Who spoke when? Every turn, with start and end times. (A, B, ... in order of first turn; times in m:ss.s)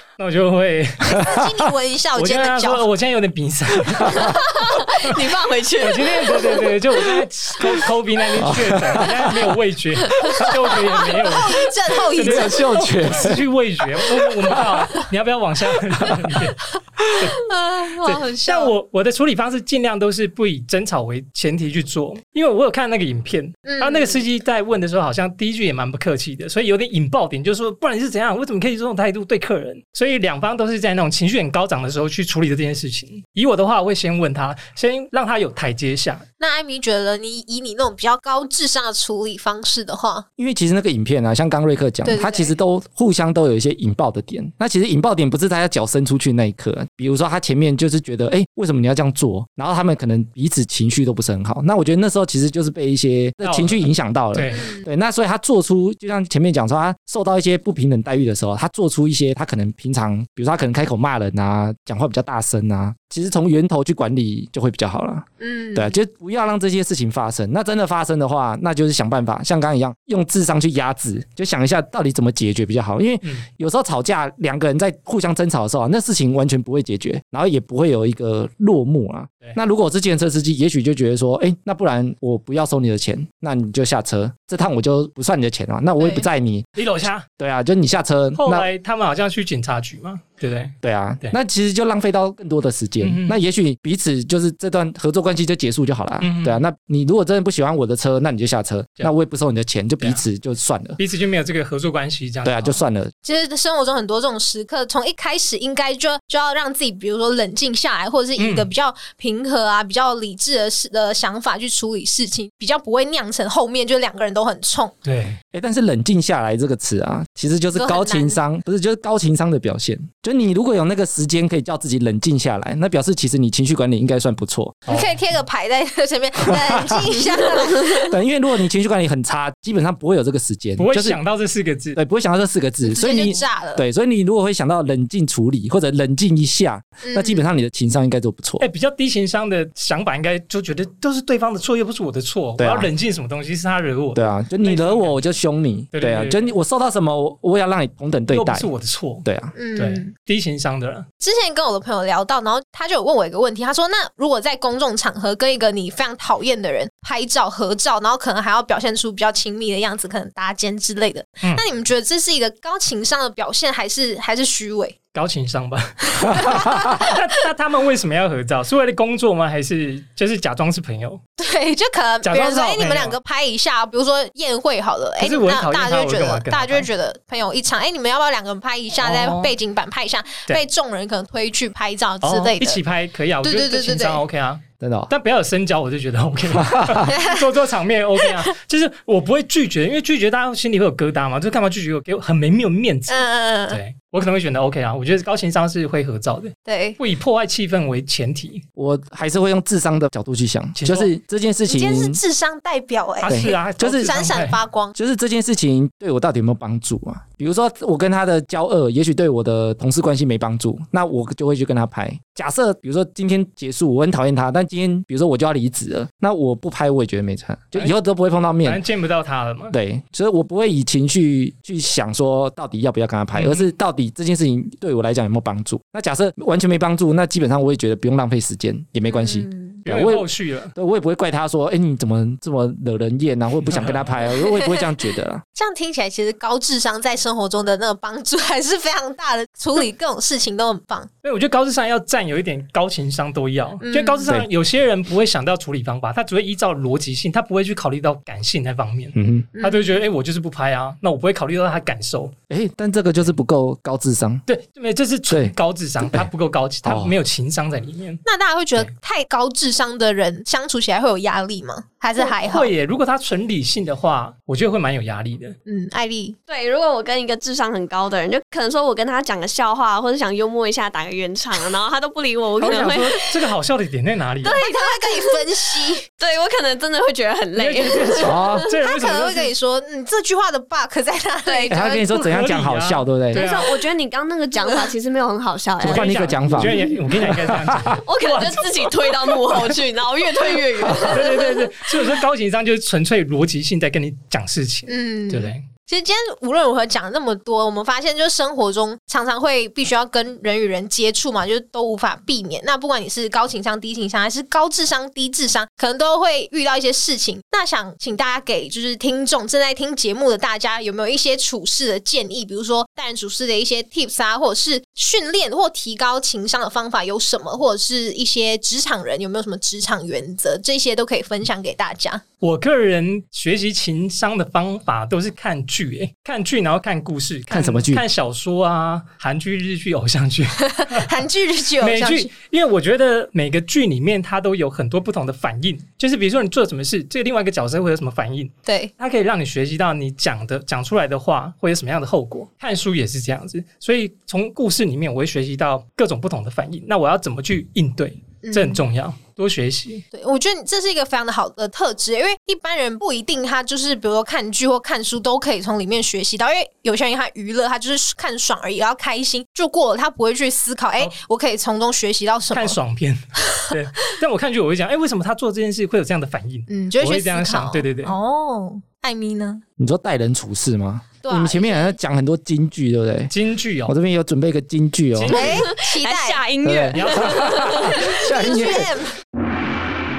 0:00.2-0:01.3 A
0:01.0-0:02.8 B
0:01.2-0:01.4 C
0:02.2-0:04.4 A
0:04.1-0:04.3 C
0:04.5-0:06.6 D
0:05.0-0:16.6 A
0:08.4-0:09.3 C
0:11.1-0:12.7 B
0:12.2-0:13.4 C
0:14.5-0:14.8 C
0:17.4-0:18.6 D
0:18.0-0:18.6 B
0:18.0-0:36.2 A
0:23.6-0:24.2 B
0:36.4-0:40.2 B
0:40.4-1:26.8 C
0:42.0-0:42.5 B
0:53.4-0:54.7 A
0:54.5-0:54.9 B
1:05.4-1:06.0 B
1:26.8-1:27.3 A
1:27.4-1:28.7 C
1:28.4-1:31.4 A
1:30.8-1:41.0 C
1:33.0-1:33.4 A
1:36.2-1:36.6 A
1:41.0-1:42.8 A
1:42.4-1:43.1 C
1:43.2-1:54.9 B
1:48.4-1:48.7 A
1:55.0-1:55.4 A
1:55.5-2:04.8 C
1:57.7-1:58.4 B
2:04.9-2:05.2 A
2:04.9-2:08.2 B
2:06.4-2:11.2 C
2:10.8-2:12.0 A
2:12.0-2:18.7 C
2:12.8-2:13.8 B
2:17.0-2:17.4 B
2:18.6-2:25.3 A
2:22.6-2:22.9 C
2:24.2-2:28.7 C
2:25.9-2:26.4 A
2:28.3-2:31.1 A
2:29.2-2:29.5 C
2:29.6-2:30.1 B
2:31.2-2:45.0 B
2:45.1-2:51.2 A
2:46.1-2:47.2 B
2:51.4-3:02.8 B
2:52.2-2:53.2 A
2:55.2-2:56.9 A
2:59.0-2:59.5 A
3:02.2-3:18.6 A
3:03.4-3:04.2 B
3:04.8-3:05.1 C
3:06.5-3:07.1 C
3:07.0-3:07.4 B
3:13.1-3:13.8 B
3:16.7-3:17.0 B
3:18.8-3:22.2 C
3:20.8-3:21.1 A
3:21.7-3:25.0 B
3:23.2-3:24.6 A
3:23.3-3:24.1 C
3:25.0-3:38.8 C
3:38.6-3:39.8 A
3:39.7-3:55.4 C
3:43.4-3:43.7 A
3:49.1-3:49.8 B
3:49.9-3:50.7 A
3:53.7-3:54.2 A
3:55.5-4:01.1 B
4:01.2-4:12.3 A
4:03.8-4:04.3 B
4:09.2-4:09.5 C
4:09.6-4:10.0 B
4:12.5-4:14.4 C
4:14.5-4:18.2 A
4:15.3-4:16.3 C
4:16.8-4:17.2 C
4:18.2-4:22.7 B
4:22.2-4:25.6 A
4:25.7-4:26.4 B
4:26.5-4:33.4 D
4:32.6-4:34.6 A
4:34.4-4:35.4 D
4:34.5-4:36.1 B
4:36.1-4:38.7 D
4:37.6-4:39.5 A
4:38.2-4:38.7 C
4:38.7-4:42.4 B
4:41.5-4:41.8 D
4:41.7-4:43.4 C
4:42.2-4:43.8 A
4:43.3-4:47.0 D
4:44.6-4:44.9 B
4:45.8-4:48.0 C
4:45.8-4:49.8 A
4:47.9-4:52.2 D
4:51.0-4:55.6 A
4:54.9-5:22.2 B
5:22.4-5:31.2 A
5:27.5-5:28.0 C
5:30.7-5:32.3 B
5:31.8-5:50.0 A
5:38.6-5:38.9 B
5:48.4-5:48.8 B
5:50.1-6:02.8 B
6:02.5-6:08.2 A
6:06.7-6:09.6 B
6:09.8-6:13.3 C
6:11.2-6:12.0 B
6:13.3-6:13.9 A
6:13.8-6:15.4 C
6:15.2-6:15.7 A
6:15.3-6:16.4 B
6:15.3-6:18.4 D
6:16.6-6:18.9 C
6:16.9-6:18.0 A
6:18.0-6:19.2 B